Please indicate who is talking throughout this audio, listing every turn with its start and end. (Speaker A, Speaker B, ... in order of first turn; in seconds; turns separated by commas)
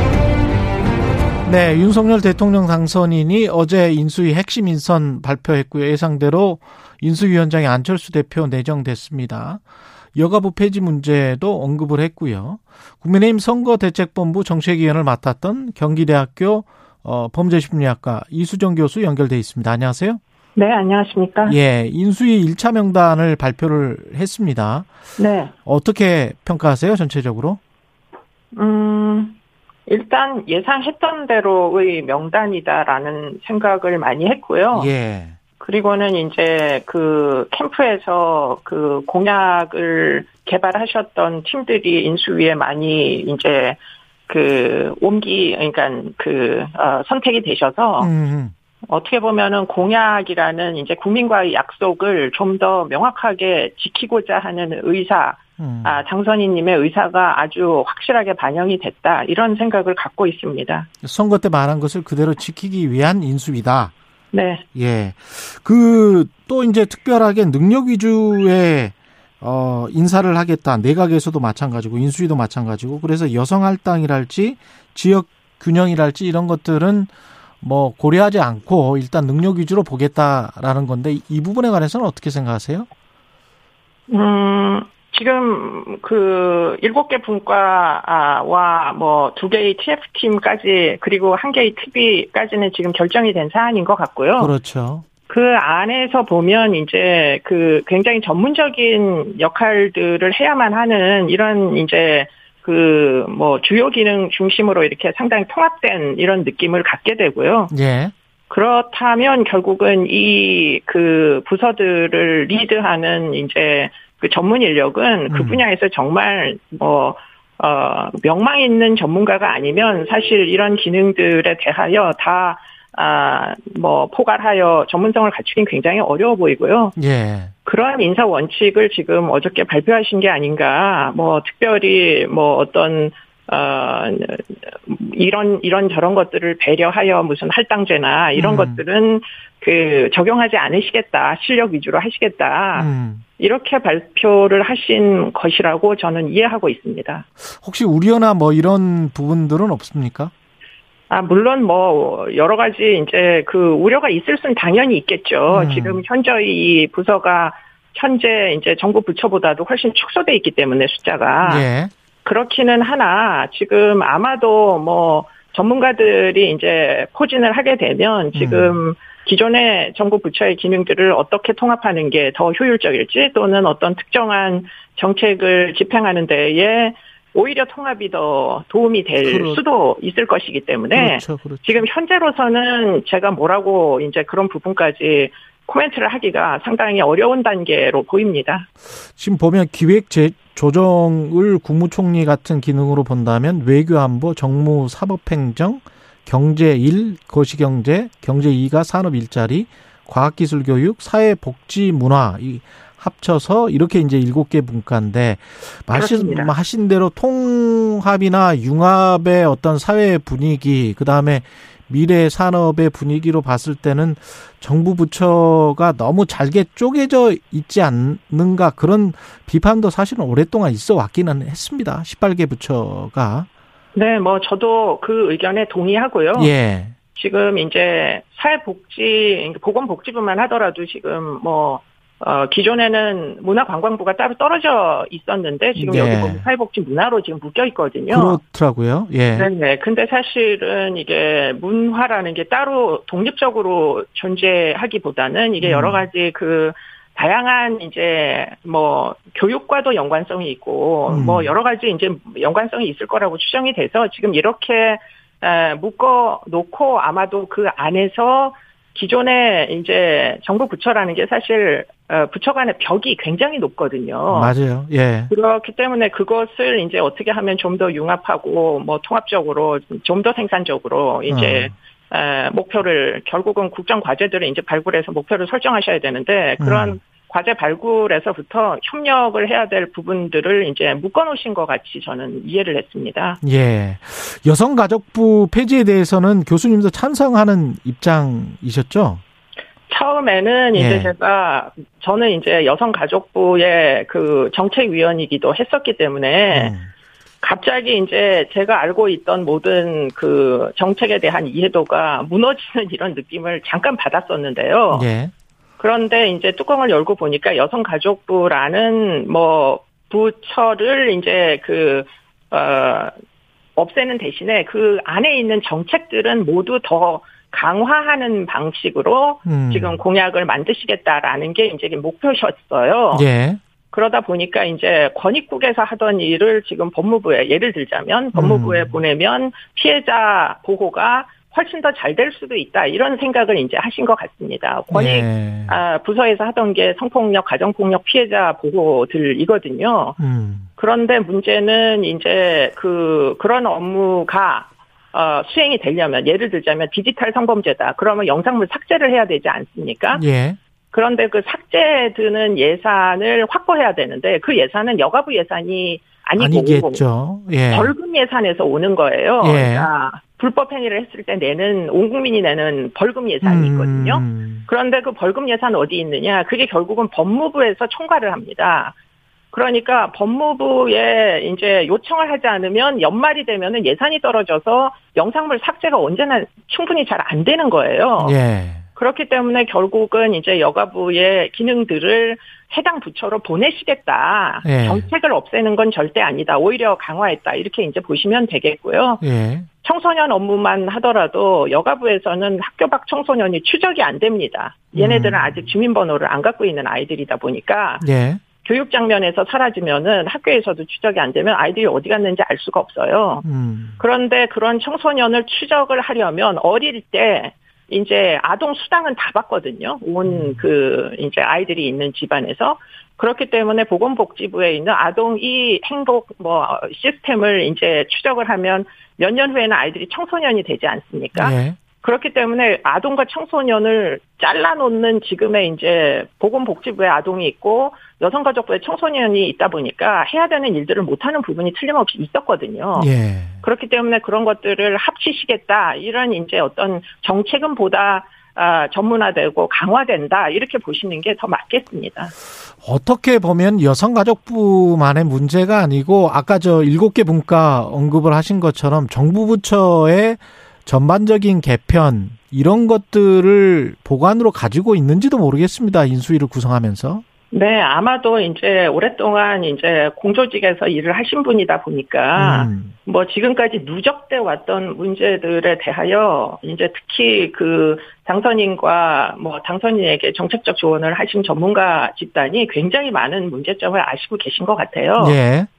Speaker A: 1.4-9.6, Speaker A: 10.1-20.2, Speaker B: 20.6-21.6, Speaker A: 21.4-24.9, Speaker B: 25.2-25.5, Speaker A: 25.6-27.6, Speaker B: 28.5-34.9, Speaker A: 34.7-35.4, Speaker B: 35.6-48.1, Speaker A: 48.0-48.5, Speaker B: 48.9-60.9, Speaker A: 55.6-56.0, Speaker A: 61.0-63.9, Speaker B: 64.3-64.6, Speaker A: 64.7-82.9, Speaker B: 84.1-94.5, Speaker A: 94.4-95.0, Speaker B: 95.3-107.7, Speaker A: 107.7-108.1, Speaker B: 108.5-127.0, Speaker A: 115.3-115.6, Speaker A: 127.0-127.5, Speaker B: 127.7-147.2, Speaker A: 138.4-138.8, Speaker A: 142.8-143.2, Speaker A: 147.4-150.3, Speaker B: 151.1-161.6, Speaker A: 155.5-156.0, Speaker A: 161.4-161.9, Speaker B: 162.2-188.7, Speaker A: 168.3-168.8, Speaker A: 179.2-179.6, Speaker A: 180.9-181.8, Speaker A: 189.1-223.5, Speaker B: 205.9-206.5, Speaker B: 223.9-226.5, Speaker A: 226.3-226.9, Speaker B: 227.1-238.4, Speaker A: 235.8-236.4, Speaker A: 238.1-239.5, Speaker B: 239.4-264.5, Speaker A: 245.6-246.0, Speaker A: 251.1-251.5, Speaker A: 264.3-265.3, Speaker B: 265.3-283.4, Speaker A: 271.3-271.7, Speaker A: 276.6-277.0, Speaker A: 283.4-289.2, Speaker B: 289.9-296.7, Speaker A: 290.8-291.1, Speaker A: 296.5-296.9, Speaker B: 297.4-305.1, Speaker A: 304.9-305.3, Speaker B: 305.8-313.1, Speaker B: 313.8-323.2, Speaker A: 319.4-320.0, Speaker A: 323.1-323.6, Speaker B: 323.9-340.2, Speaker A: 328.3-329.0, Speaker A: 334.9-335.8, Speaker A: 340.2-340.7, Speaker B: 340.8-350.2, Speaker A: 350.1-350.6, Speaker B: 350.9-357.0, Speaker A: 356.4-357.9, Speaker B: 357.7-368.9, Speaker A: 359.4-359.9, Speaker A: 363.4-364.7, Speaker B: 369.5-378.4, Speaker A: 378.2-378.9, Speaker B: 379.0-389.2, Speaker A: 384.6-385.1, Speaker A: 389.2-389.7, Speaker B: 389.8-398.0, Speaker A: 394.9-395.7, Speaker A: 398.0-398.4, Speaker B: 398.5-403.4, Speaker A: 403.4-404.0, Speaker B: 404.0-433.1, Speaker A: 410.2-410.6, Speaker A: 421.3-421.8, Speaker A: 433.0-433.6, Speaker B: 433.6-442.3, Speaker A: 442.8-457.2, Speaker B: 457.5-475.4, Speaker A: 462.4-462.9, Speaker A: 475.2-475.7